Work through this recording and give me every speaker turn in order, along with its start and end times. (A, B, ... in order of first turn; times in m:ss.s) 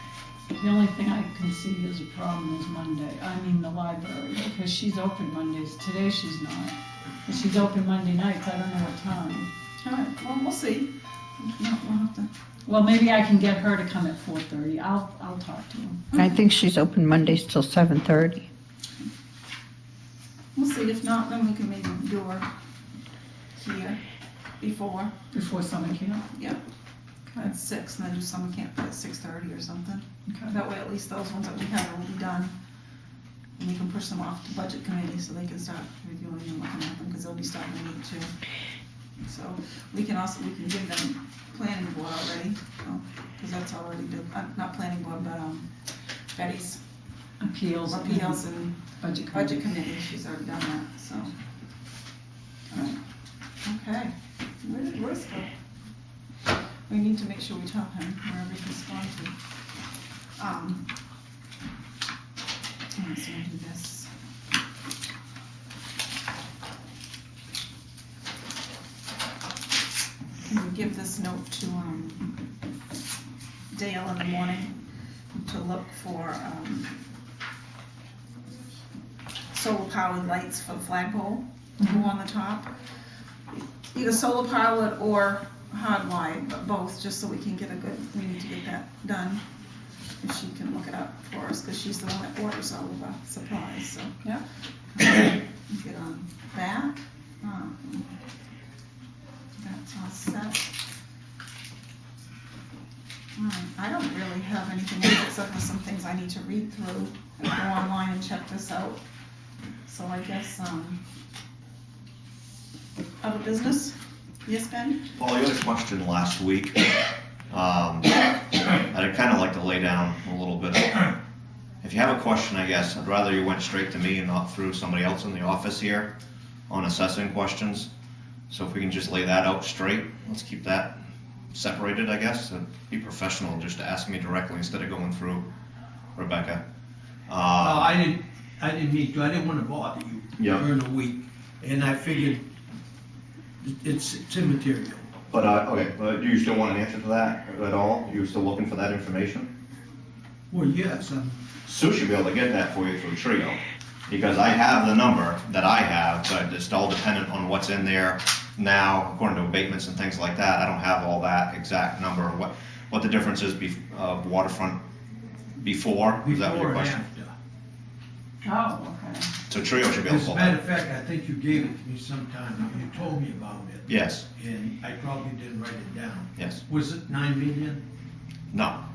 0:00.5-0:09.5 A
0:09.8-0:12.3 B
0:12.7-0:16.1 A
0:16.1-0:18.4 C
0:20.5-0:22.5 B
0:23.6-0:24.0 B
0:24.6-0:25.1 B
0:25.3-0:26.2 A
0:26.3-0:26.6 B
0:27.4-0:32.5 B
0:30.3-0:30.5 A
0:33.6-0:38.3 B
0:39.2-0:45.7 B
0:46.3-0:46.8 B
0:47.4-0:48.4 A
0:47.9-0:48.8 B
0:49.0-0:49.6 A
0:49.3-0:51.3 B
0:52.7-0:53.0 B
0:53.6-0:55.5 B
0:56.9-0:59.3 B
1:00.4-1:00.8 B
1:03.0-1:04.1 B
1:10.4-1:12.3 B
1:13.7-1:14.7 B
1:15.4-1:17.0 B
1:19.5-1:22.7 B
1:21.8-1:22.0 A
1:23.9-1:29.4 B
1:30.2-1:34.2 B
1:34.9-1:38.1 B
1:39.6-1:40.7 B
1:43.4-1:49.0 B
1:49.9-1:51.0 B
1:53.2-1:53.9 B
1:54.4-1:55.0 B
1:55.2-1:56.8 D
1:57.5-2:01.1 D
2:01.8-2:06.1 D
2:06.7-2:07.9 D
2:08.5-2:10.9 D
2:11.5-2:15.5 D
2:16.2-2:16.6 D
2:17.3-2:17.9 D
2:17.6-2:22.4 E
2:20.4-2:20.6 D
2:23.6-2:25.1 E
2:25.3-2:29.5 D
2:30.5-2:31.4 E
2:31.6-2:44.8 D
2:45.6-2:47.0 D
2:46.2-2:47.3 E
2:48.4-2:49.3 A
2:49.5-2:50.6 D
2:50.1-2:57.8 E
2:53.9-2:54.2 D
2:56.4-2:56.6 D
2:58.5-2:58.8 D